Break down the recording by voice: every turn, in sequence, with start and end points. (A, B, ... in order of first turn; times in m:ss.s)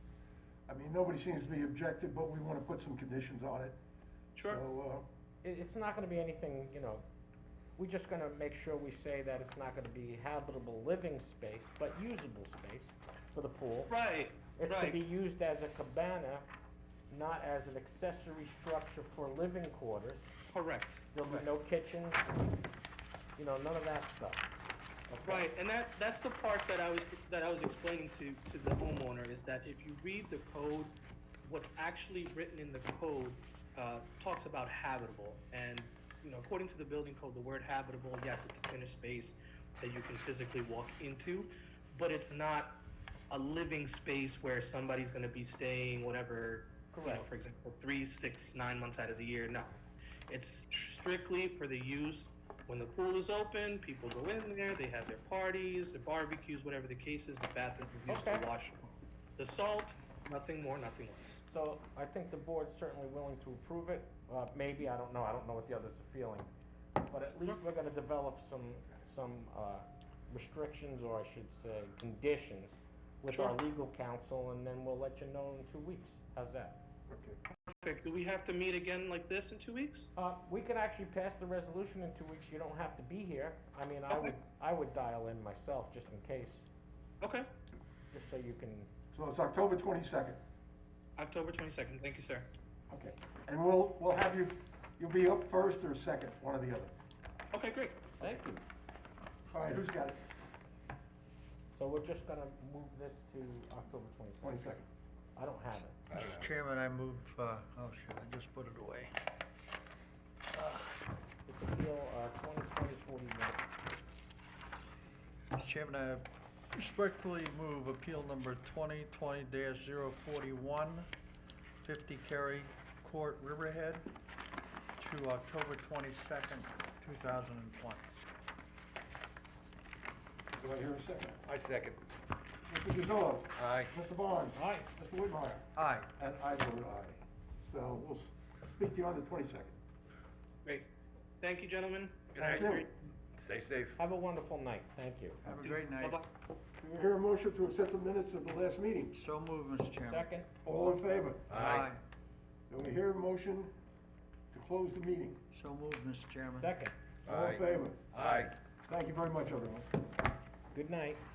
0:00.7-0:03.8 A
0:04.4-0:04.6 B
0:04.4-0:05.1 A
0:05.4-0:07.0 C
0:07.8-0:13.9 C
0:13.9-0:15.0 B
0:14.5-0:16.5 C
0:17.1-0:20.3 C
0:20.5-0:21.5 B
0:21.1-0:22.3 C
0:23.4-0:24.5 C
0:25.2-0:25.4 A
0:25.2-1:01.4 B
0:46.9-0:47.3 C
0:58.1-0:58.5 C
1:01.5-1:06.5 C
1:07.0-1:16.8 C
1:13.3-1:13.6 B
1:17.1-1:17.4 A
1:17.7-1:20.1 B
1:20.2-1:26.6 C
1:24.1-1:24.4 B
1:27.2-1:27.5 B
1:28.1-1:28.9 C
1:29.1-1:30.4 A
1:31.2-1:32.5 B
1:32.9-1:36.9 A
1:37.5-1:38.1 B
1:38.2-1:38.6 C
1:39.5-1:40.2 A
1:41.8-1:44.7 C
1:44.4-1:44.9 A
1:45.4-1:46.0 C
1:46.1-1:46.5 D
1:46.1-1:49.1 E
1:51.5-1:53.7 C
1:55.5-2:01.1 E
2:01.8-2:04.1 E
2:05.0-2:08.0 E
2:10.6-2:11.5 A
2:11.4-2:12.1 D
2:12.7-2:19.8 A
2:13.6-2:13.9 D
2:14.6-2:14.9 C
2:15.8-2:16.1 E
2:20.6-2:20.9 B
2:21.4-2:22.9 B
2:22.4-2:22.6 D
2:22.4-2:22.9 A
2:23.3-2:24.0 D
2:24.0-2:25.4 C
2:25.4-2:26.2 E
2:26.0-2:26.2 B
2:26.8-2:29.2 A
2:29.1-2:30.3 E
2:30.0-2:30.5 C
2:30.6-2:31.5 A
2:31.5-2:31.9 D
2:31.5-2:32.0 E
2:32.7-2:33.8 A
2:34.5-2:35.4 A
2:35.5-2:36.7 E
2:36.6-2:37.0 C
2:37.3-2:38.5 D
2:37.3-2:38.1 A
2:38.8-2:39.9 A
2:40.7-2:41.2 C